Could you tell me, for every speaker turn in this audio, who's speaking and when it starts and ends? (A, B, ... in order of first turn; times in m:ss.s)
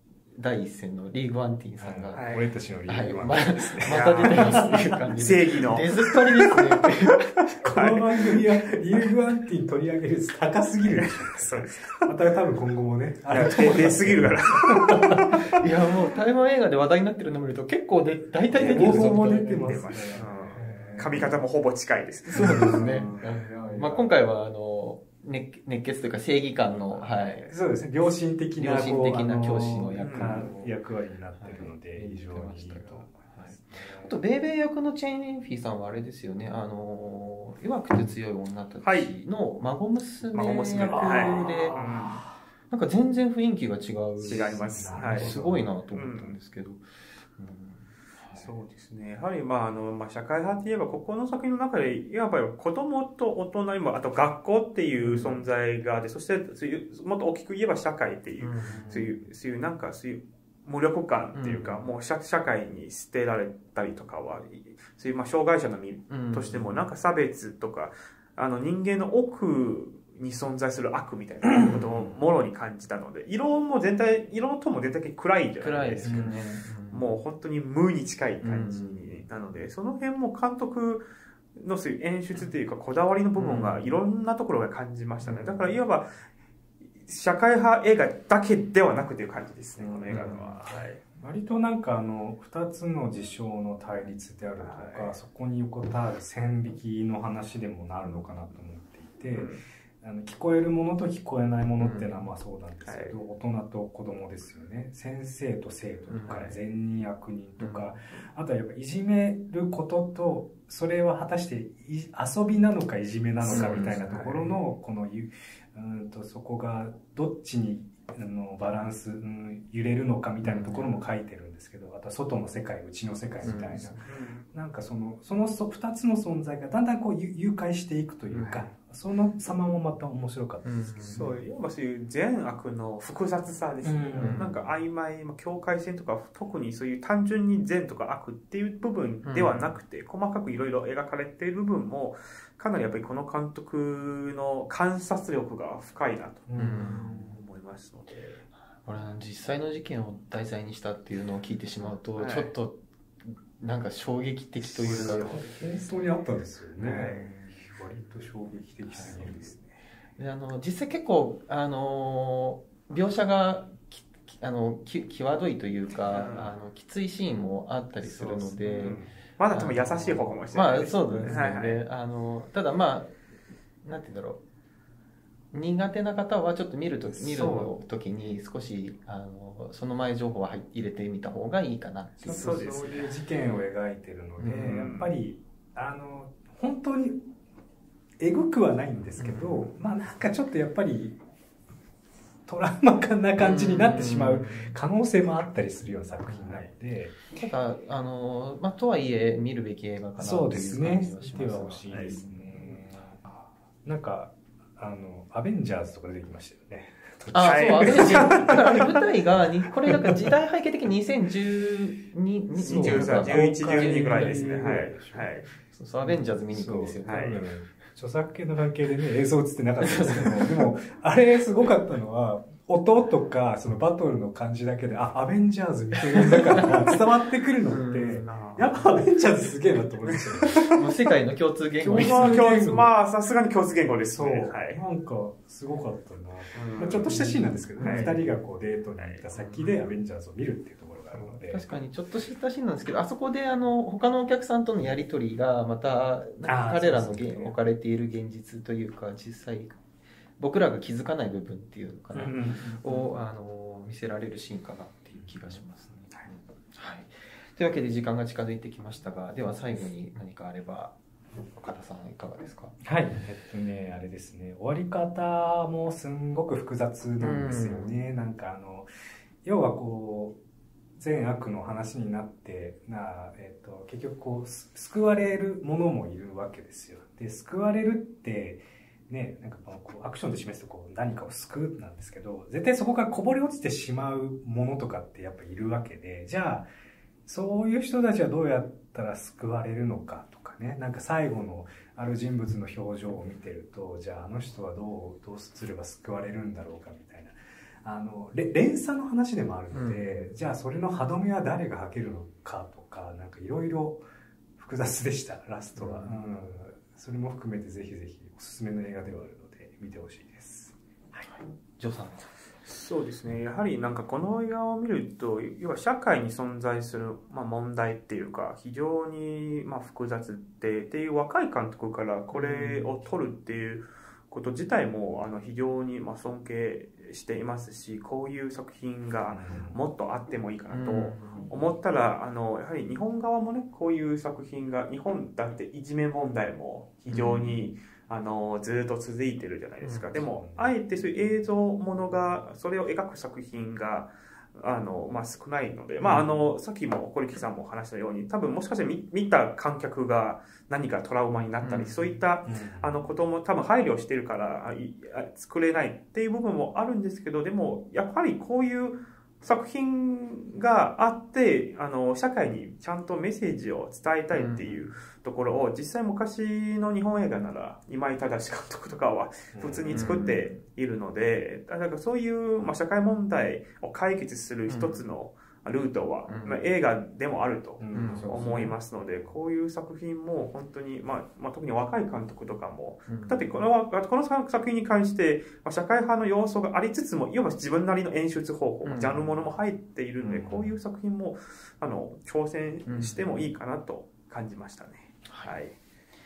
0:00.3-0:02.3 A
0:01.8-0:05.0 B
0:02.2-0:02.5 C
0:02.8-0:07.4 A
0:03.9-0:06.2 C
0:07.5-0:15.6 B
0:07.6-0:08.4 C
0:10.8-0:12.0 C
0:13.3-0:15.0 C
0:14.8-0:20.1 A
0:18.5-0:21.3 B
0:18.5-0:22.8 C
0:22.3-0:27.5 A
0:22.3-0:24.1 B
0:26.9-0:34.1 B
0:27.2-0:27.5 C
0:28.6-0:30.8 A
0:30.0-0:30.5 C
0:31.4-0:41.8 A
0:38.8-0:39.1 C
0:40.3-0:42.2 C
0:40.8-0:42.1 B
0:42.7-0:46.8 A
0:44.2-0:45.8 B
0:44.3-0:45.3 C
0:45.9-0:46.4 C
0:47.4-0:48.5 A
0:48.4-1:21.1 C
0:55.0-0:55.5 A
0:58.4-0:59.0 A
0:58.7-0:59.1 B
1:01.4-1:01.9 A
1:06.1-1:06.8 A
1:11.6-1:12.1 A
1:11.6-1:12.0 B
1:15.6-1:17.2 A
1:16.0-1:16.4 B
1:18.4-1:19.3 A
1:21.6-1:26.1 C
1:23.4-1:23.9 A
1:25.2-1:25.8 A
1:27.0-1:31.0 C
1:29.8-2:11.4 B
1:30.1-1:30.4 A
1:34.6-1:35.2 C
1:39.3-1:39.6 C
1:41.8-1:42.3 A
1:42.8-1:43.2 C
1:46.1-1:46.5 A
1:46.3-1:46.6 C
1:47.6-1:48.0 A
1:53.4-1:54.6 C
1:53.5-1:54.0 A
2:00.4-2:01.0 A
2:03.4-2:04.1 A
2:03.5-2:04.5 C
2:08.3-2:08.7 A
2:08.4-2:08.7 C
2:10.6-2:11.3 A
2:11.0-2:28.4 C
2:13.8-2:14.7 B
2:14.2-2:14.6 A
2:19.2-2:19.8 A
2:26.5-2:27.4 B
2:26.6-2:27.4 A
2:28.8-2:35.4 A
2:32.2-2:32.5 C
2:34.7-2:35.8 C
2:34.8-2:39.6 B
2:36.8-2:37.5 C
2:38.9-2:39.4 A
2:39.2-2:39.8 C
2:40.2-2:49.0 A
2:46.0-2:46.5 C
2:48.0-2:49.1 B
2:48.8-2:51.8 C
2:49.5-2:53.2 A
2:50.8-2:51.4 B
2:53.8-2:54.4 A
2:55.5-3:02.8 A
2:57.0-2:57.7 B
3:02.2-3:07.3 B
3:02.3-3:03.1 C
3:04.4-3:04.9 A
3:04.6-3:05.1 C
3:08.2-3:11.2 B
3:09.2-3:09.7 A
3:12.5-3:17.2 B
3:13.4-3:14.8 A
3:16.2-3:16.7 A
3:17.3-3:22.8 A
3:20.2-3:23.2 B
3:21.9-3:22.2 C
3:23.8-3:28.9 B
3:27.3-3:34.9 A
3:27.4-3:29.0 C
3:32.6-3:35.3 B
3:32.6-3:35.5 C
3:35.7-3:37.3 A
3:36.0-3:50.8 B
3:37.0-3:37.4 C
3:39.8-3:40.7 A
3:46.1-3:46.9 A
3:47.7-3:48.3 A
3:48.2-3:48.8 C
3:50.0-3:50.7 C
3:50.7-3:52.5 A
3:51.8-3:52.9 B
3:51.8-3:54.8 C
3:54.1-4:01.6 B
3:56.5-3:58.2 C
3:57.1-3:58.2 A
3:59.0-3:59.3 C
3:59.3-3:59.8 A
4:01.1-4:09.8 A
4:06.4-4:07.6 B
4:10.4-4:21.0 A
4:12.1-4:13.1 B
4:12.2-4:12.7 C
4:15.2-4:15.6 B
4:21.5-4:22.8 A
4:22.8-4:28.9 B
4:27.2-4:28.0 A
4:29.4-4:30.4 B
4:31.0-4:46.7 B
4:47.3-5:04.0 B
4:59.7-5:00.3 A
5:04.6-5:11.2 B
5:05.8-5:06.2 C
5:11.2-5:12.3 A
5:12.7-6:35.8 C
5:22.3-5:23.0 A
5:29.3-5:29.8 B
5:30.7-5:31.6 A
5:37.1-5:37.6 A
5:39.8-5:40.3 A
5:40.2-5:40.7 B
5:46.0-5:46.3 A
5:51.6-5:52.2 A
5:52.4-5:53.0 B
6:04.3-6:04.9 A
6:09.5-6:10.1 B
6:09.9-6:10.6 A
6:14.7-6:15.0 A
6:16.3-6:16.7 A
6:17.8-6:19.2 B
6:17.9-6:18.7 A
6:23.1-6:23.5 A
6:28.8-6:29.3 A
6:30.2-6:30.7 B
6:32.9-6:33.5 A
6:35.3-6:35.6 A